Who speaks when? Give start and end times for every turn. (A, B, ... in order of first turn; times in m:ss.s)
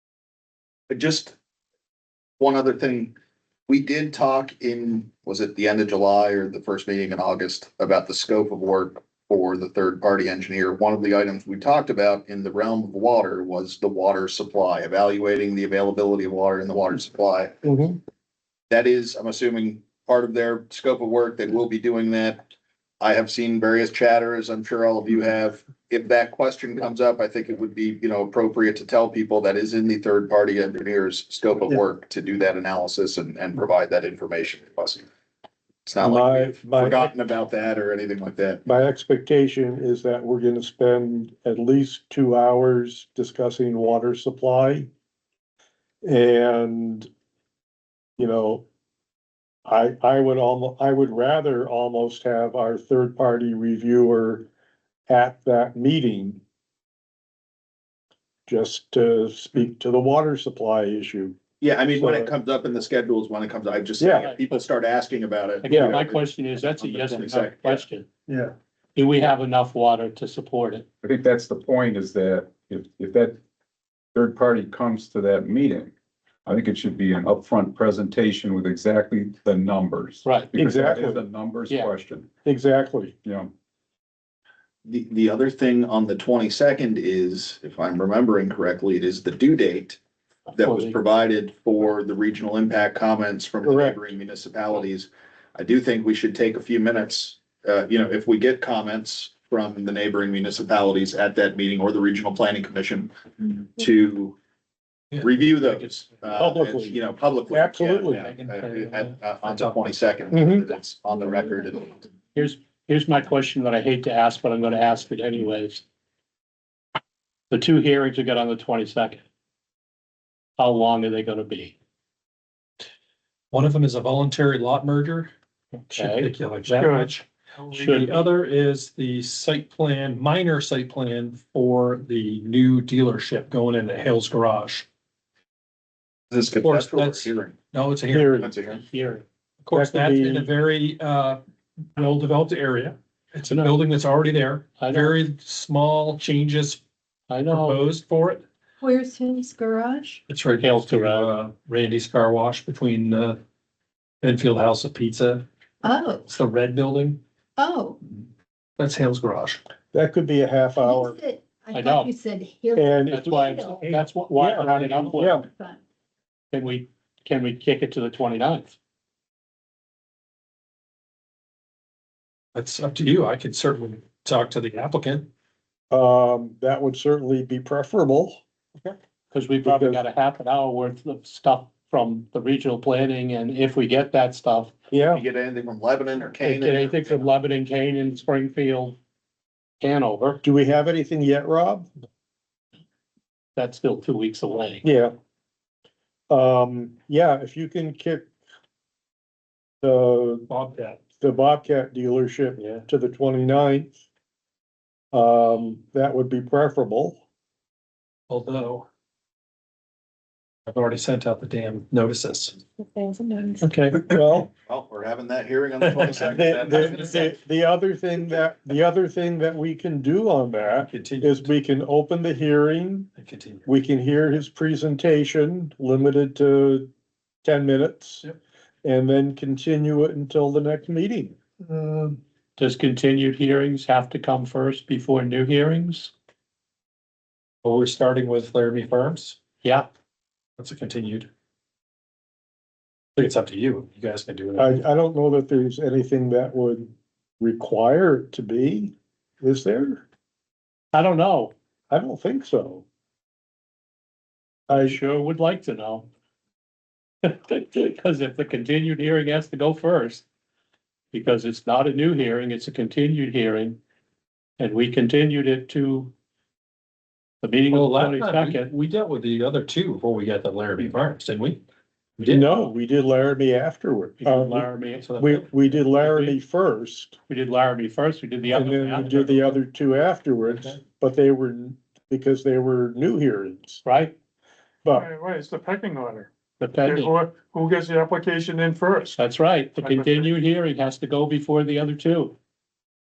0:00.9-0:01.3 A
0:02.4-0:03.1 A
0:03.7-0:17.6 A
0:17.6-0:18.0 B
0:18.7-0:22.4 A
0:23.0-0:35.0 A
0:35.9-0:38.6 A
0:36.0-0:37.1 B
0:38.6-0:44.9 B
0:46.0-0:47.1 B
0:48.2-0:48.6 B
0:49.7-0:54.5 B
0:55.1-0:56.4 B
0:58.5-1:01.4 B
1:01.6-1:07.8 A
1:01.9-1:02.3 B
1:04.0-1:04.3 B
1:04.2-1:04.6 C
1:05.6-1:08.1 C
1:05.7-1:06.0 B
1:08.3-1:08.5 B
1:09.0-1:10.8 C
1:11.0-1:13.4 D
1:14.1-1:15.9 D
1:16.4-1:22.3 D
1:20.2-1:20.5 C
1:20.6-1:21.2 B
1:22.4-1:23.1 B
1:23.2-1:23.5 D
1:24.8-1:30.0 A
1:30.5-1:31.0 C
1:30.6-1:44.4 A
1:33.6-1:34.1 B
1:45.1-1:45.7 E
1:45.2-1:52.0 A
1:46.4-1:48.3 B
1:48.3-1:49.9 E
1:50.3-1:50.7 B
1:52.3-1:55.8 C
1:57.5-1:59.2 C
2:00.6-2:01.8 C
2:03.5-2:05.3 E
2:05.9-2:14.9 E
2:05.9-2:06.8 C
2:06.8-2:07.2 F
2:07.8-2:08.1 C
2:16.3-2:17.6 A
2:16.5-2:18.5 E
2:18.1-2:18.5 B
2:18.4-2:18.8 A
2:18.9-2:19.2 C
2:19.6-2:21.4 E
2:19.7-2:20.5 B
2:21.9-2:26.8 E
2:23.5-2:23.7 C
2:24.8-2:25.2 C
2:27.3-2:27.8 C
2:27.5-2:28.4 E
2:28.8-2:30.2 G
2:30.3-2:33.4 E
2:30.6-2:31.4 C
2:34.2-2:35.5 E
2:35.8-2:36.3 G
2:36.2-2:37.2 E
2:37.6-2:38.0 G
2:38.8-2:39.6 E
2:39.9-2:41.2 B
2:40.8-2:43.8 G
2:41.7-2:42.1 C
2:42.8-2:45.4 B
2:43.1-2:45.4 C
2:45.4-2:45.8 G
2:46.5-2:48.8 C
2:52.5-2:55.3 E
2:55.9-2:58.4 B
2:59.3-3:04.7 C
2:59.6-3:00.0 B
3:04.9-3:05.2 B
3:05.1-3:07.2 A
3:06.4-3:09.0 C
3:09.8-3:10.4 C
3:10.4-3:11.9 B
3:13.6-3:14.8 C
3:14.8-3:15.1 B
3:16.3-3:18.3 B
3:19.8-3:20.5 B
3:20.5-3:21.0 E
3:21.2-3:23.9 B
3:22.6-3:22.8 E
3:25.1-3:27.2 B
3:28.3-3:28.9 E
3:30.7-3:32.6 E
3:32.8-3:33.6 G
3:33.6-3:34.0 C
3:34.0-3:34.5 B
3:34.6-3:37.3 A
3:36.0-3:37.3 E
3:36.2-3:43.1 B
3:40.9-3:41.5 E
3:43.2-3:43.6 E
3:43.7-3:46.9 B
3:47.4-3:48.2 B
3:48.8-3:52.2 B
3:52.6-3:56.1 C
3:57.6-3:59.4 E
3:59.6-3:59.9 C
4:00.6-4:01.3 E
4:03.2-4:04.8 E
4:04.6-4:10.0 B
4:10.9-4:11.5 C
4:11.9-4:12.8 B
4:14.7-4:15.0 B
4:14.7-4:16.1 C
4:17.2-4:20.2 C
4:21.1-4:23.8 C
4:24.6-4:26.1 C
4:27.4-4:28.7 C
4:27.7-4:31.6 E
4:32.2-4:32.5 E
4:32.3-4:34.7 B
4:34.2-4:35.2 C
4:35.0-4:35.7 E
4:35.2-4:37.2 B
4:36.0-4:36.4 C
4:37.3-4:39.6 C
4:38.5-4:43.8 B
4:43.8-4:44.1 C
4:44.8-4:45.1 B
4:44.9-4:46.3 F
4:46.6-4:47.2 C
4:46.8-4:49.2 F
4:49.2-4:52.4 C
4:49.8-4:50.3 F